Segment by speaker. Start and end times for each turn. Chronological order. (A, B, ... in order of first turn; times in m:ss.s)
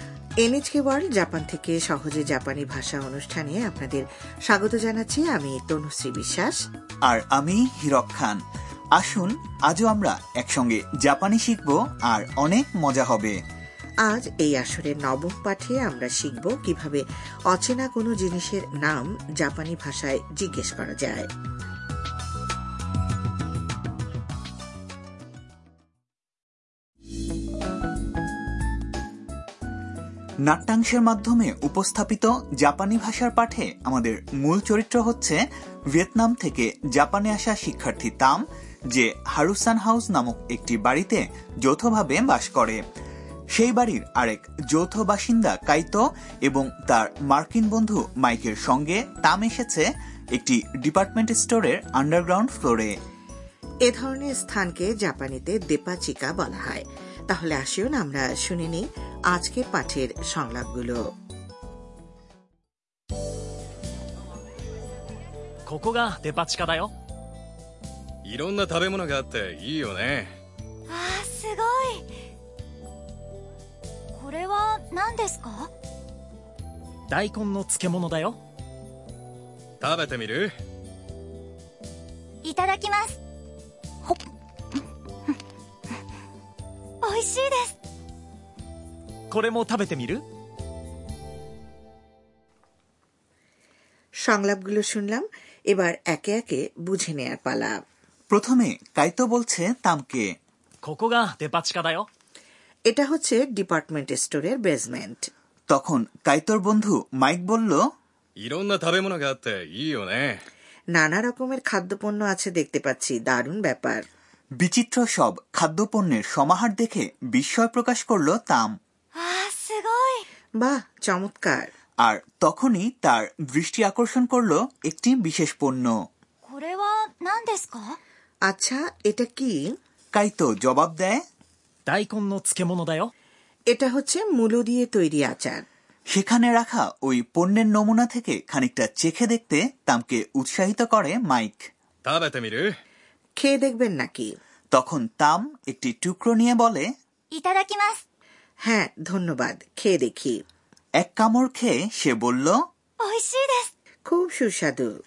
0:00.4-0:06.6 A
0:07.1-0:08.4 B
0:09.0-0:13.4 B
0:14.1-0:21.3 A
0:30.4-0:35.4 B
0:35.9-0:42.8 B
0:43.5-0:52.9 B
0:53.8-1:01.0 A
1:05.7-1:06.9 C
1:08.3-1:10.3 D
1:10.9-1:12.1 E
1:14.1-1:15.7 E
1:17.1-1:18.4 C
1:19.8-1:20.5 D
1:22.4-1:23.2 E
1:27.0-1:27.7 E
1:29.3-1:30.2 C
1:34.3-1:37.8 A
1:38.3-1:40.3 B
1:40.8-1:42.1 C
1:42.9-1:45.3 A
1:45.7-1:47.8 B
1:48.4-1:50.3 D
1:50.9-1:54.0 A
1:54.6-1:58.7 B
1:59.2-2:00.2 E
2:00.6-2:01.7 A
2:02.0-2:05.9 B
2:06.4-2:08.0 E
2:08.5-2:09.7 A
2:10.1-2:11.2 B
2:11.8-2:13.1 C
2:13.7-2:15.6 A
2:16.1-2:21.7 B
2:22.0-2:22.6 D
2:23.4-2:24.3 A
2:24.7-2:26.9 B
2:27.3-2:28.0 E
2:28.6-2:30.4 A
2:31.0-2:32.6 B
2:33.0-2:33.7 E
2:34.1-2:34.9 A